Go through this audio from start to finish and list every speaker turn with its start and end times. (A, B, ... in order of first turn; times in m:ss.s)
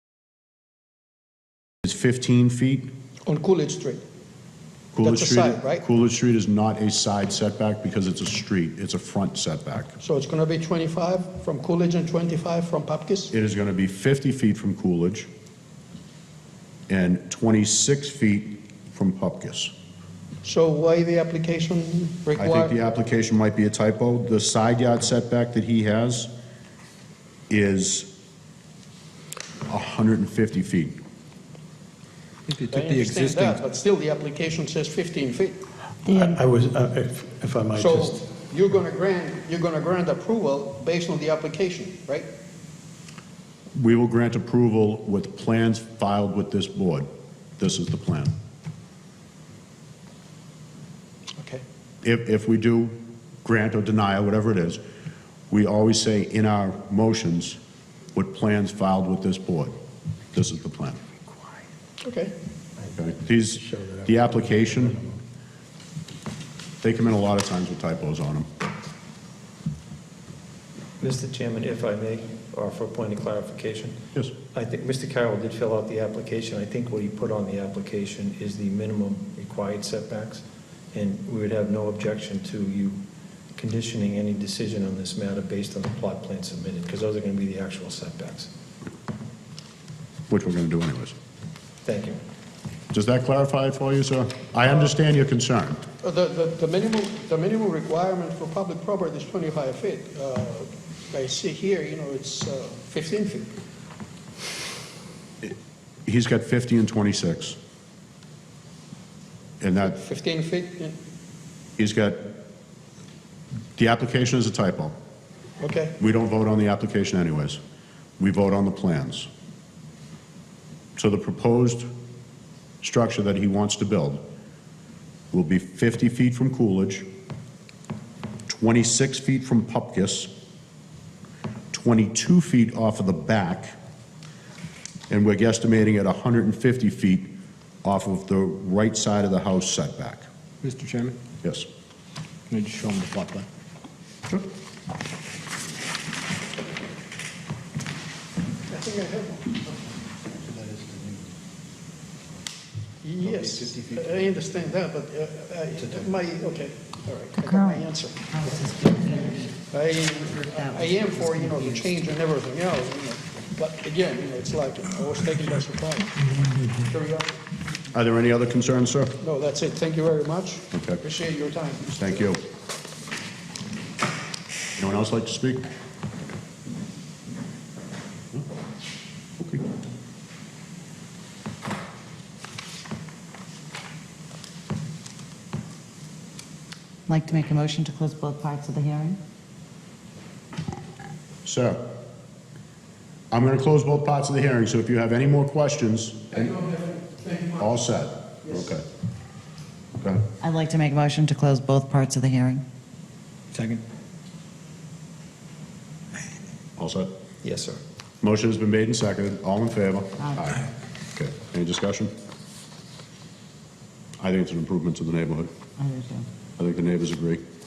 0:01.8-0:02.9 A
0:03.2-0:04.0 B
0:04.9-0:10.0 A
0:05.0-0:05.8 B
0:10.0-0:13.3 B
0:13.3-0:15.3 A
0:16.9-0:19.7 A
0:20.4-0:22.7 B
0:22.4-0:26.3 A
0:27.5-0:28.1 A
0:29.7-0:31.0 A
0:32.5-0:33.6 C
0:32.7-0:35.6 B
0:36.1-0:36.4 D
0:36.1-0:38.3 E
0:37.8-0:42.3 B
0:43.8-0:47.1 A
0:47.6-0:48.3 A
0:52.0-0:54.8 A
0:55.5-0:57.6 A
0:58.1-0:59.7 A
1:00.3-1:01.0 A
1:02.0-1:02.3 B
1:02.9-1:05.0 A
1:06.8-1:08.5 A
1:11.0-1:14.0 F
1:14.5-1:23.0 F
1:23.6-1:28.5 F
1:30.3-1:31.1 A
1:31.8-1:32.2 F
1:32.9-1:35.8 A
1:36.0-1:43.5 B
1:46.0-1:47.6 A
1:49.6-1:50.0 A
1:49.8-1:51.0 B
1:51.8-1:52.3 A
1:53.8-1:55.0 A
1:55.6-1:56.0 B
1:56.0-1:57.6 A
1:58.2-1:59.3 A
2:01.0-2:01.9 A
2:02.8-2:04.2 A
2:05.3-2:07.0 A
2:08.5-2:10.3 A
2:11.7-2:13.7 A
2:15.1-2:17.3 A
2:17.8-2:20.2 A
2:20.6-2:21.2 C
2:22.5-2:23.5 C
2:28.7-2:29.6 B
2:30.5-2:31.0 F
2:33.0-2:38.2 B
2:37.4-2:39.5 D
2:39.7-2:47.4 B
2:40.4-2:41.9 D
2:47.9-2:49.2 A
2:49.2-2:51.9 B
2:50.7-2:51.0 A
2:51.9-2:52.4 A
2:54.8-2:55.6 A
3:07.1-3:09.2 D
3:11.4-3:11.9 A
3:13.3-3:16.7 A
3:16.6-3:17.5 B
3:17.4-3:18.8 A
3:20.4-3:22.6 D
3:23.5-3:23.8 C
3:26.8-3:27.1 A
3:27.4-3:27.8 F
3:28.2-3:32.1 A
3:34.2-3:35.5 A
3:35.8-3:36.3 D
3:36.6-3:37.4 A